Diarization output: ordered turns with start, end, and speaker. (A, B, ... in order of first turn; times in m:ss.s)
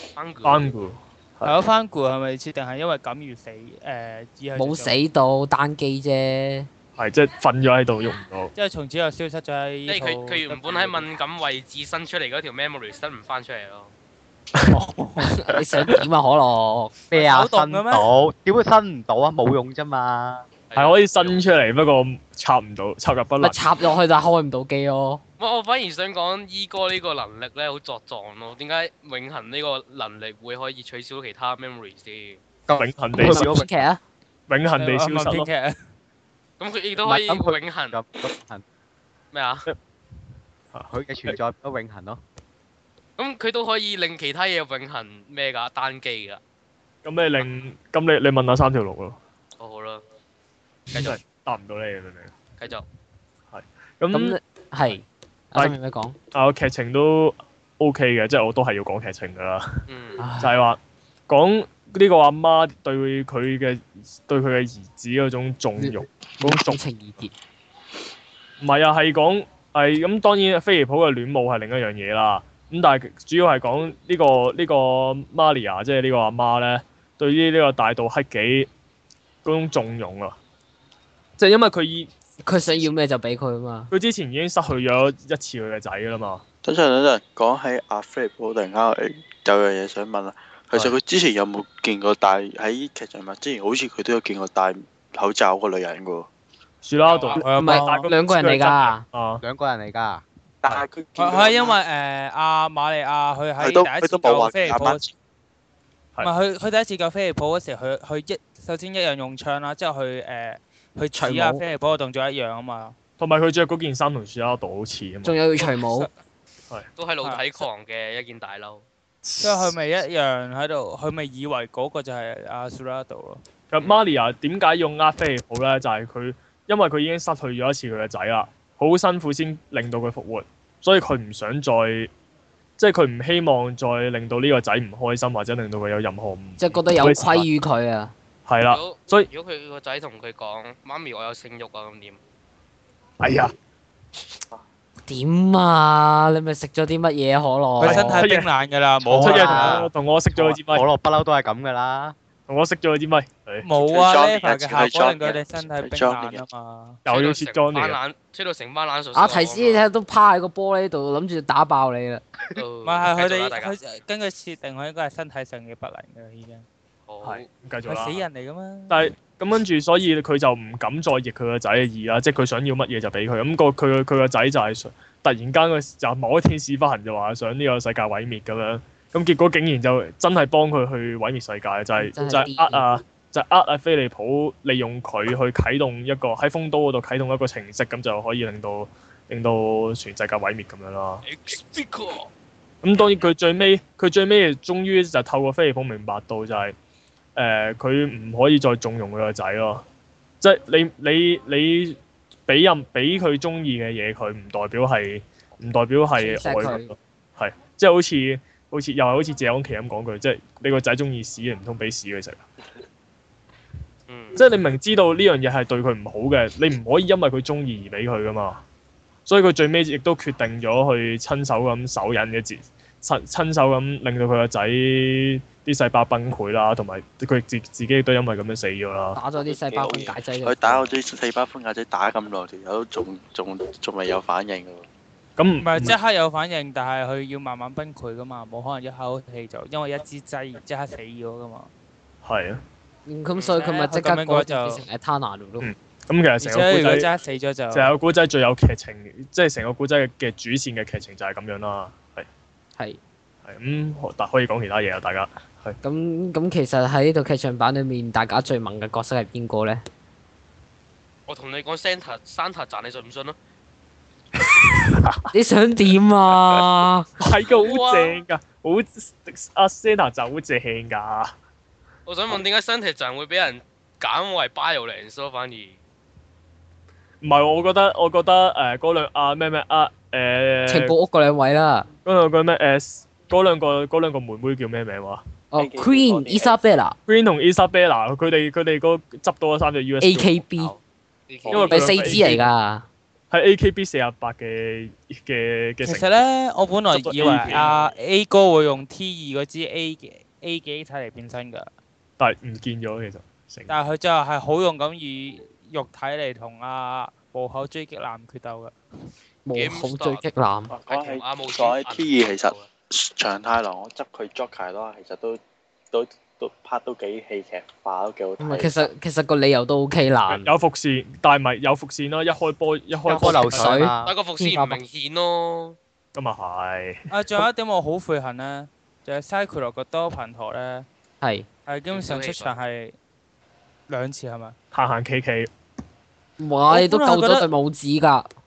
0:00.2-0:00.7 A
0:00.4-0:01.6 B
0:01.4-0:05.0 C
0:04.6-0:06.7 D
0:07.0-0:08.5 B
0:08.6-0:11.1 C
0:09.9-0:13.9 A
0:14.7-0:15.3 C
0:15.2-0:16.9 D
0:17.1-0:20.4 E
0:17.1-0:18.1 C
0:20.7-0:21.4 A
0:20.8-0:23.6 B
0:23.4-0:25.2 D
0:25.4-0:32.4 A
0:32.7-0:33.7 E
0:32.7-0:33.6 B
0:33.2-0:34.0 D
0:34.5-0:35.5 B
0:34.8-0:35.8 C
0:36.6-0:38.0 A
0:37.0-0:38.6 E
0:39.3-0:39.7 A
0:40.7-0:41.3 B
0:40.9-0:42.2 E
0:43.2-0:46.4 A
0:47.0-0:49.2 B
0:49.6-0:50.0 A
0:50.9-0:51.2 A
0:50.9-0:52.3 B
0:52.6-0:52.8 A
0:53.5-0:54.4 B
0:54.1-0:56.2 D
0:56.3-0:59.8 B
0:59.9-1:00.3 A
1:00.2-1:00.5 D
1:00.4-1:06.8 B
1:05.8-1:07.3 D
1:08.6-1:18.7 B
1:19.4-1:20.4 B
1:21.4-1:22.1 B
1:22.4-1:23.9 D
1:23.9-1:26.4 B
1:26.6-1:36.3 F
1:36.8-1:39.4 B
1:37.0-1:37.4 A
1:37.3-1:38.1 C
1:37.5-1:39.0 D
1:39.4-1:40.2 E
1:40.6-1:41.8 F
1:41.2-1:45.0 C
1:43.6-1:45.1 F
1:46.2-1:53.0 C
1:51.2-1:51.6 D
1:53.2-1:55.4 B
1:55.2-1:56.1 D
1:57.0-1:58.8 A
1:57.2-1:57.6 C
1:59.2-1:59.8 B
1:59.4-2:03.4 C
2:03.7-2:12.1 B
2:12.8-2:17.5 B
2:16.6-2:18.1 D
2:18.5-2:19.3 B
2:18.6-2:22.2 A
2:23.2-2:23.5 B
2:25.1-2:28.2 D
2:27.8-2:29.9 C
2:27.8-2:28.5 B
2:29.0-2:32.2 E
2:29.2-2:30.8 B
2:32.5-2:33.7 B
2:33.6-2:37.0 C
2:33.8-2:36.4 F
2:37.0-2:38.0 B
2:37.1-2:39.8 A
2:39.1-2:42.2 D
2:42.6-2:43.8 A
2:42.8-2:46.6 C
2:47.1-2:47.5 A
2:47.2-2:48.3 B
2:47.8-2:49.1 C
2:48.9-3:11.2 B
3:02.0-3:02.9 D
3:11.2-3:12.3 A
3:12.8-3:16.8 B
3:13.0-3:13.2 A
3:17.4-3:19.8 B
3:20.4-3:32.4 B
3:26.2-3:27.0 D
3:34.1-3:34.4 A
3:34.4-3:38.6 B
3:39.3-3:49.2 B
3:49.2-3:51.0 D
3:49.4-3:54.9 F
3:55.4-3:56.0 B
3:55.6-4:01.7 C
4:02.2-4:02.6 B
4:03.1-4:05.7 D
4:03.5-4:04.8 C
4:05.6-4:07.1 B
4:06.4-4:07.9 C
4:07.7-4:12.3 B
4:13.4-4:15.8 B
4:15.8-4:19.8 D
4:21.3-4:23.4 A
4:24.4-4:25.2 B
4:25.3-4:27.1 D
4:27.2-4:31.3 B
4:27.5-4:28.2 A
4:32.1-4:35.8 A
4:37.2-4:41.0 B
4:40.7-4:41.9 D
4:42.0-4:45.2 B
4:45.5-4:47.0 D
4:45.6-4:46.6 F
4:47.1-4:50.4 B
4:50.0-4:50.8 D
4:50.6-4:52.2 A
4:51.5-4:51.8 F
4:51.5-4:52.5 B
4:51.5-4:52.9 D
4:53.3-4:56.2 B
4:55.8-5:01.7 C
4:56.9-4:57.7 B
4:57.4-4:57.9 A
5:02.2-5:03.8 B
5:03.7-5:08.7 C
5:09.5-5:10.7 D
5:09.5-5:10.2 A
5:10.7-5:15.4 F
5:10.9-5:12.7 A
5:15.9-5:18.9 F
5:18.4-5:20.5 D
5:20.3-5:23.8 B
5:23.1-5:24.1 E
5:23.2-5:24.8 D
5:24.0-5:25.8 A
5:26.2-5:27.4 B
5:27.1-5:30.9 C
5:31.2-5:31.5 D
5:31.7-5:33.0 C
5:31.9-5:32.6 A
5:33.9-5:34.6 C
5:34.7-5:35.5 B
5:36.4-5:38.3 D
5:36.7-5:37.5 C